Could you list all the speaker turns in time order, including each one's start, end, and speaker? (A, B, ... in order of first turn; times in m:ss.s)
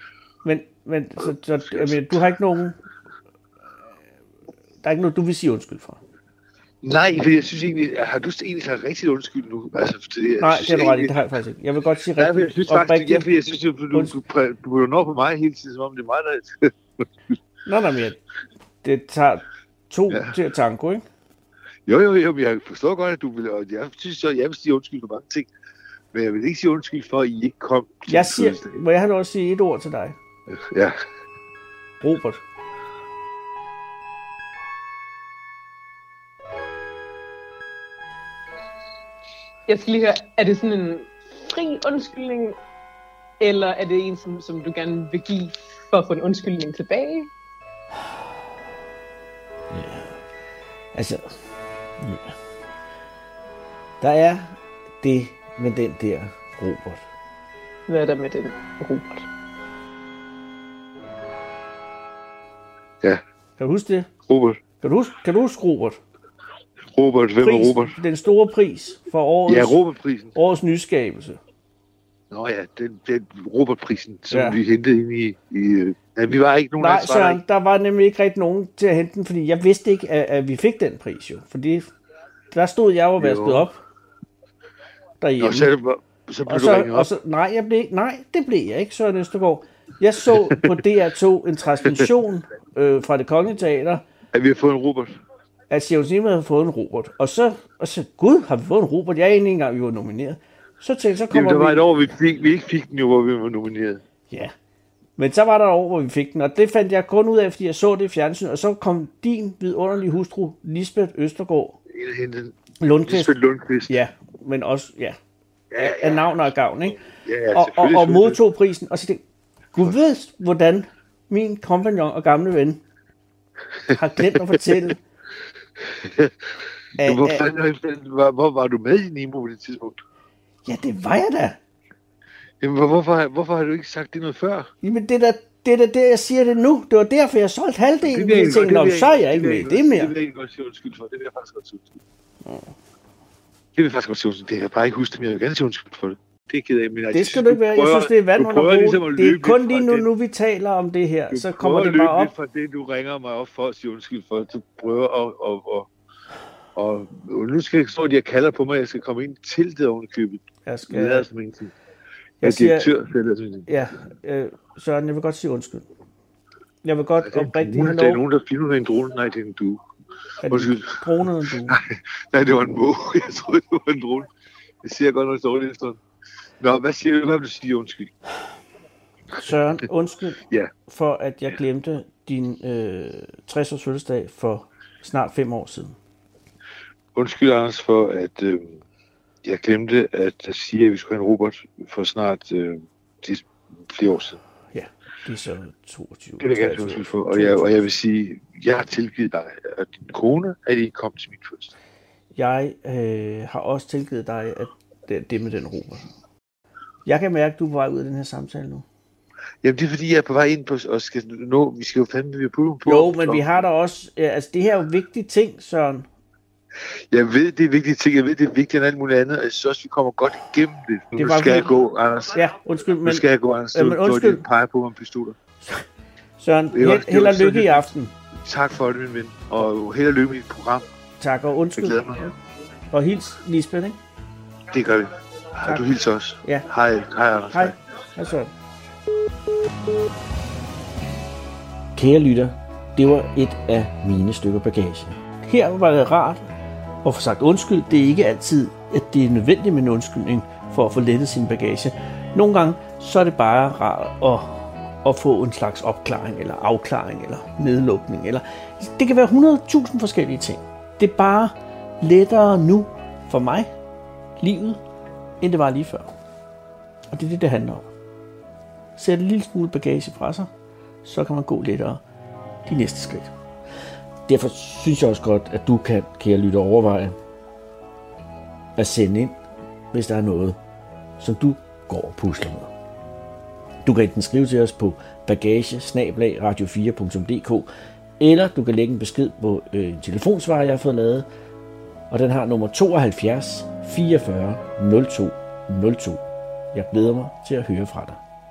0:00.4-0:02.8 A
0:01.2-0:02.2 B
0:04.8-0:06.0 A
0:06.8-0:11.2 B
0:10.4-0:13.3 A
0:12.2-0:17.3 B
0:17.6-0:18.2 A
0:18.8-0:21.0 A
0:20.1-0:20.4 B
0:21.9-0:25.5 B
0:26.1-0:28.8 B
0:28.1-0:30.2 A
0:30.5-0:31.0 B
0:32.0-0:32.4 A
0:39.7-0:42.6 C
0:43.4-0:47.3 C
0:49.7-0:50.2 A
0:51.0-0:51.2 A
0:52.0-0:52.3 A
0:54.0-0:54.5 A
0:55.0-0:57.0 A
0:57.9-0:59.3 C
1:03.6-1:04.1 A
1:04.3-1:04.6 B
1:04.8-1:06.0 A
1:06.9-1:08.0 B
1:07.4-1:09.8 A
1:09.5-1:10.4 B
1:10.4-1:11.4 A
1:12.3-1:17.4 B
1:14.3-1:14.6 A
1:16.8-1:21.9 A
1:22.5-1:23.8 A
1:23.2-1:23.7 B
1:25.2-1:25.7 A
1:25.4-1:27.1 B
1:26.4-1:34.0 A
1:34.3-1:35.1 B
1:35.7-1:41.9 A
1:41.3-1:44.0 B
1:45.2-1:51.8 A
1:51.9-1:54.0 B
1:52.8-1:53.3 A
1:53.9-1:55.2 A
1:55.7-1:56.5 B
1:55.8-1:57.0 A
1:57.1-1:58.4 B
1:57.5-2:02.8 A
2:03.9-2:05.0 A
2:05.8-2:10.0 B
2:07.0-2:07.5 A
2:10.6-2:11.6 A
2:12.6-2:14.7 B
2:14.8-2:20.1 A
2:18.0-2:22.0 B
2:23.8-2:30.1 B
2:27.1-2:32.3 A
2:31.3-2:35.9 B
2:36.8-2:41.7 B
2:40.7-2:41.2 A
2:42.4-2:42.9 A
2:42.4-2:43.7 B
2:43.7-2:45.9 A
2:46.8-2:48.2 A
2:47.2-2:49.8 B
2:50.4-2:51.8 A
2:50.4-2:51.1 B
2:51.7-2:54.3 B
2:54.8-2:56.0 B
2:56.6-2:58.1 B
2:59.4-3:06.0 A
3:07.2-3:08.8 B
3:09.4-3:14.4 B
3:14.7-3:17.8 A
3:16.4-3:21.7 B
3:22.4-3:26.0 A
3:27.0-3:28.8 A
3:29.6-3:33.6 B
3:32.8-3:36.1 A
3:37.1-3:42.4 B
3:41.2-3:41.7 A
3:42.3-3:44.4 A
3:43.0-3:45.4 B
3:46.4-3:48.1 A
3:46.7-3:47.9 B
3:48.4-3:50.9 B
3:51.2-3:52.0 A
3:51.8-3:52.3 B
3:52.9-3:54.0 A
3:54.7-3:57.8 B
3:57.5-3:58.5 A
4:02.0-4:06.5 A
4:07.0-4:23.7 A
4:24.4-4:24.8 A
4:25.4-4:26.1 A
4:27.1-4:27.9 A
4:29.0-4:30.5 A
4:31.0-4:32.0 A
4:32.7-4:33.3 A
4:34.3-4:37.2 A
4:38.8-4:39.3 A
4:39.9-4:40.6 A
4:41.2-4:42.7 A
4:43.8-4:47.7 A
4:48.2-4:51.2 A
4:52.1-4:56.2 A
4:56.7-4:58.2 A